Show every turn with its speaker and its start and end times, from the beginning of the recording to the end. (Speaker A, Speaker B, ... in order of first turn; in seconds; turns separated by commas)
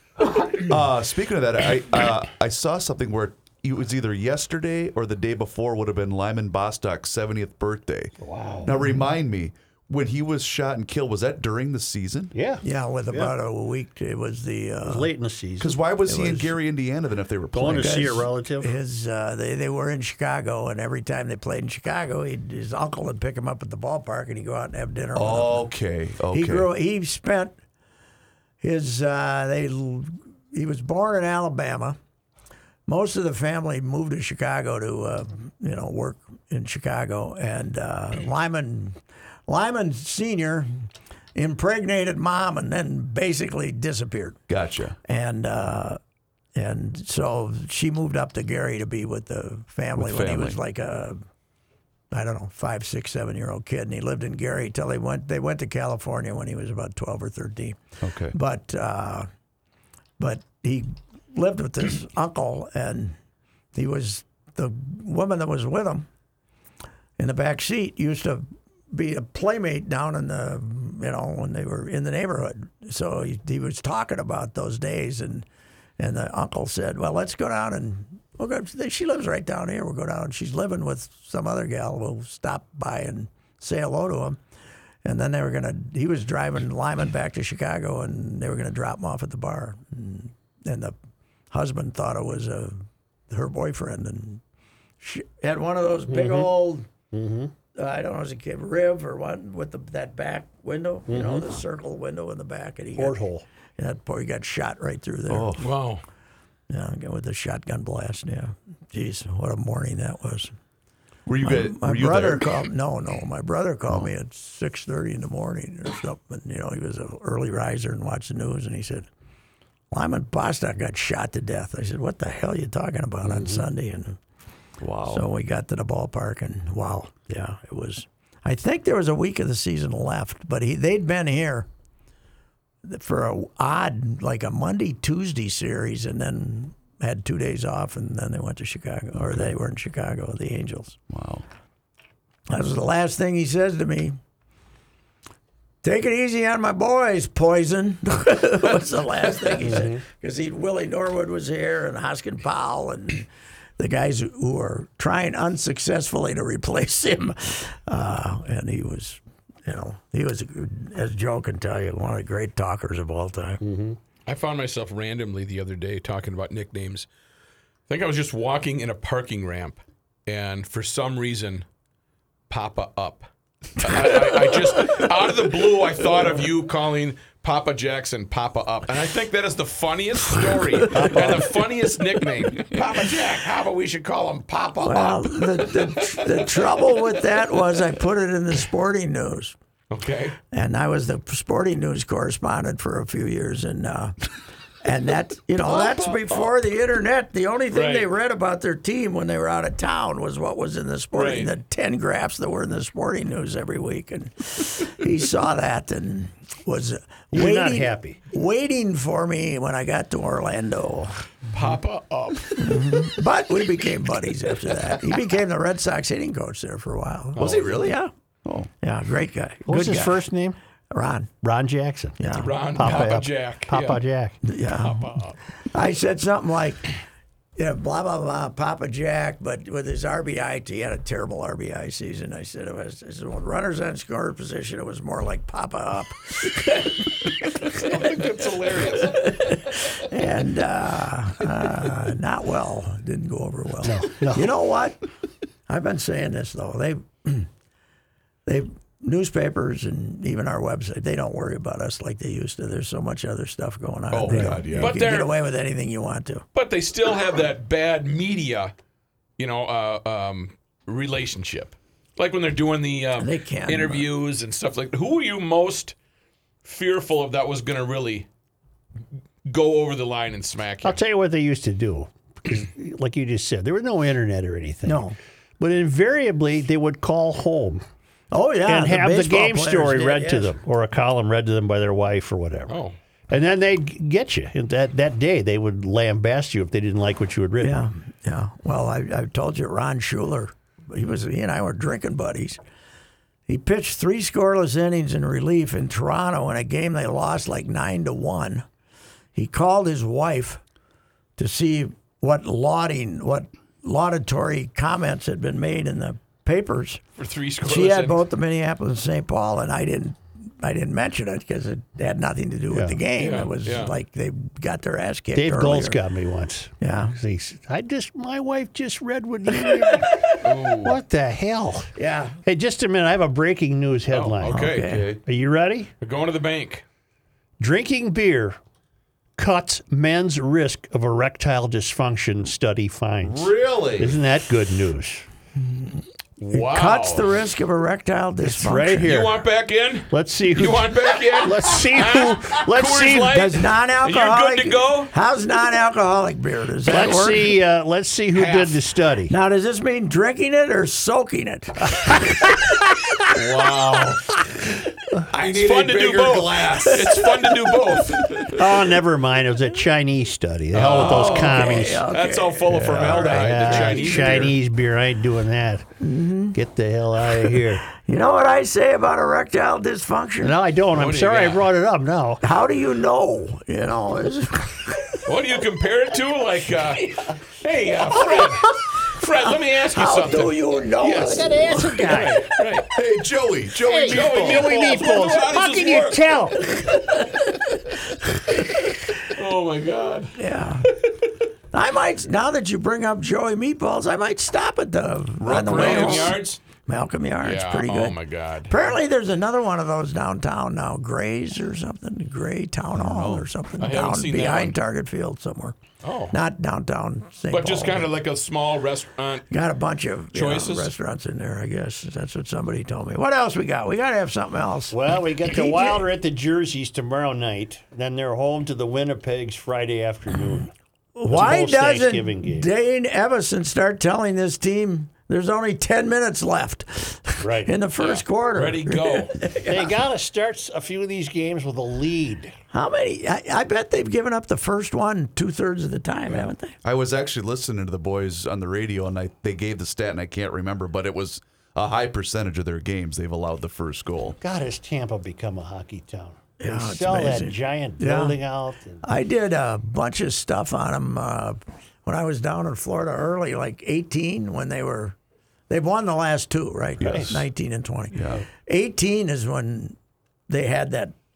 Speaker A: 0.6-12.3, Speaker B: 8.2-8.9, Speaker B: 12.3-13.3, Speaker C: 12.6-15.1, Speaker B: 14.8-15.8, Speaker A: 15.6-18.2, Speaker C: 16.1-16.5, Speaker B: 17.5-18.8, Speaker C: 17.7-25.7, Speaker A: 25.1-26.7, Speaker C: 26.3-27.5, Speaker C: 28.6-32.0, Speaker C: 32.9-39.0, Speaker C: 39.5-44.4, Speaker A: 44.5-45.0, Speaker C: 45.1-46.0, Speaker C: 46.5-51.2, Speaker A: 50.0-50.6, Speaker C: 52.1-57.8, Speaker A: 58.0-58.4, Speaker C: 58.3-59.3, Speaker C: 60.2-63.2, Speaker C: 63.7-66.1, Speaker C: 67.2-75.5, Speaker C: 76.0-84.4, Speaker C: 85.0-91.0, Speaker C: 91.5-94.4, Speaker C: 95.0-96.9, Speaker B: 96.1-96.5, Speaker B: 97.1-97.5, Speaker C: 97.8-103.2, Speaker B: 101.1-101.5, Speaker B: 103.0-103.5, Speaker C: 103.8-105.5, Speaker A: 105.3-105.7, Speaker D: 105.6-106.0, Speaker C: 106.7-110.5, Speaker A: 111.3-112.5, Speaker C: 111.4-119.1, Speaker C: 119.9-124.2, Speaker B: 123.2-123.6, Speaker A: 124.8-125.2, Speaker C: 125.1-131.7, Speaker C: 132.8-141.0, Speaker A: 141.1-141.4, Speaker C: 142.5-144.2, Speaker C: 145.8-163.6, Speaker B: 149.6-150.0, Speaker B: 163.6-164.0, Speaker D: 164.3-167.1, Speaker D: 167.9-171.7, Speaker D: 172.5-186.7, Speaker C: 180.9-181.4, Speaker B: 180.9-181.5, Speaker C: 184.8-189.6, Speaker D: 189.9-190.4, Speaker C: 190.5-194.2, Speaker C: 194.8-211.2, Speaker D: 195.7-196.4, Speaker D: 197.7-198.1, Speaker D: 201.1-201.5, Speaker B: 207.3-208.2, Speaker D: 211.5-213.0, Speaker C: 212.6-218.1, Speaker A: 217.4-218.7, Speaker C: 218.8-220.2, Speaker B: 219.7-220.6, Speaker C: 220.9-221.3, Speaker B: 221.4-222.2, Speaker C: 222.2-223.2, Speaker D: 222.4-224.0, Speaker B: 222.8-224.4, Speaker C: 224.4-226.9, Speaker D: 224.8-225.4, Speaker C: 227.6-237.9, Speaker D: 237.6-239.6, Speaker C: 239.0-245.0, Speaker B: 243.8-244.5, Speaker C: 245.7-247.5, Speaker C: 248.5-256.4, Speaker A: 254.1-255.0, Speaker B: 254.3-254.6, Speaker D: 254.7-255.4, Speaker D: 256.6-258.7, Speaker D: 259.4-265.9, Speaker C: 263.2-264.1, Speaker D: 266.6-268.3, Speaker D: 269.5-271.0, Speaker B: 270.8-275.1, Speaker C: 274.9-275.2, Speaker B: 275.6-277.9, Speaker C: 278.3-280.5, Speaker B: 278.7-282.8, Speaker D: 282.7-283.0, Speaker B: 283.3-287.8, Speaker C: 287.6-292.6, Speaker C: 293.5-298.6, Speaker C: 299.4-300.6, Speaker C: 301.4-307.0, Speaker D: 307.2-308.2, Speaker C: 307.6-316.0, Speaker B: 312.7-313.0, Speaker D: 313.2-313.9, Speaker B: 315.4-321.9, Speaker C: 316.8-317.2, Speaker C: 319.7-320.4, Speaker D: 320.4-321.0, Speaker C: 322.0-322.4, Speaker B: 322.4-324.7, Speaker D: 324.1-325.1, Speaker C: 324.5-325.1, Speaker A: 324.7-325.2, Speaker B: 325.2-325.9, Speaker D: 326.0-326.8, Speaker B: 327.6-328.6, Speaker B: 329.4-335.2, Speaker A: 333.2-334.2, Speaker C: 335.6-336.0, Speaker D: 336.4-337.3, Speaker C: 336.5-339.1, Speaker B: 338.4-339.4, Speaker D: 339.0-345.1, Speaker B: 340.1-343.5, Speaker C: 343.3-347.6, Speaker B: 346.8-349.3, Speaker D: 348.3-348.8, Speaker C: 349.3-352.6, Speaker A: 353.3-354.2, Speaker D: 353.8-354.2, Speaker A: 355.3-358.6, Speaker D: 355.4-358.6, Speaker B: 358.6-362.1, Speaker D: 360.7-364.6, Speaker A: 360.8-361.1, Speaker C: 360.9-364.5, Speaker A: 362.7-363.3, Speaker B: 363.1-365.9, Speaker C: 366.0-366.6, Speaker B: 366.5-367.8, Speaker C: 367.5-370.6, Speaker B: 370.4-372.4, Speaker D: 370.9-371.7, Speaker C: 372.4-375.3, Speaker D: 375.3-382.9, Speaker C: 379.9-382.1, Speaker B: 381.1-382.5, Speaker A: 382.9-384.7, Speaker B: 383.9-386.7, Speaker D: 384.1-387.2, Speaker D: 388.7-390.3, Speaker C: 390.4-390.9, Speaker C: 391.7-405.8, Speaker A: 395.4-396.4, Speaker D: 395.5-396.6, Speaker D: 397.4-398.9, Speaker A: 402.9-403.5, Speaker D: 403.8-404.8, Speaker D: 406.0-406.4, Speaker C: 406.3-408.1, Speaker D: 407.5-409.5, Speaker C: 409.5-416.0, Speaker D: 410.3-410.9, Speaker B: 414.9-420.7, Speaker C: 421.2-429.9, Speaker B: 421.3-422.7, Speaker B: 427.4-427.7, Speaker D: 428.0-429.4, Speaker B: 429.7-432.5, Speaker C: 432.7-436.8, Speaker A: 436.8-444.4, Speaker B: 444.4-449.0, Speaker C: 446.6-448.4, Speaker C: 449.0-455.1, Speaker C: 455.7-460.0, Speaker A: 457.0-457.4, Speaker B: 457.0-457.4, Speaker A: 458.1-458.4, Speaker C: 460.5-461.1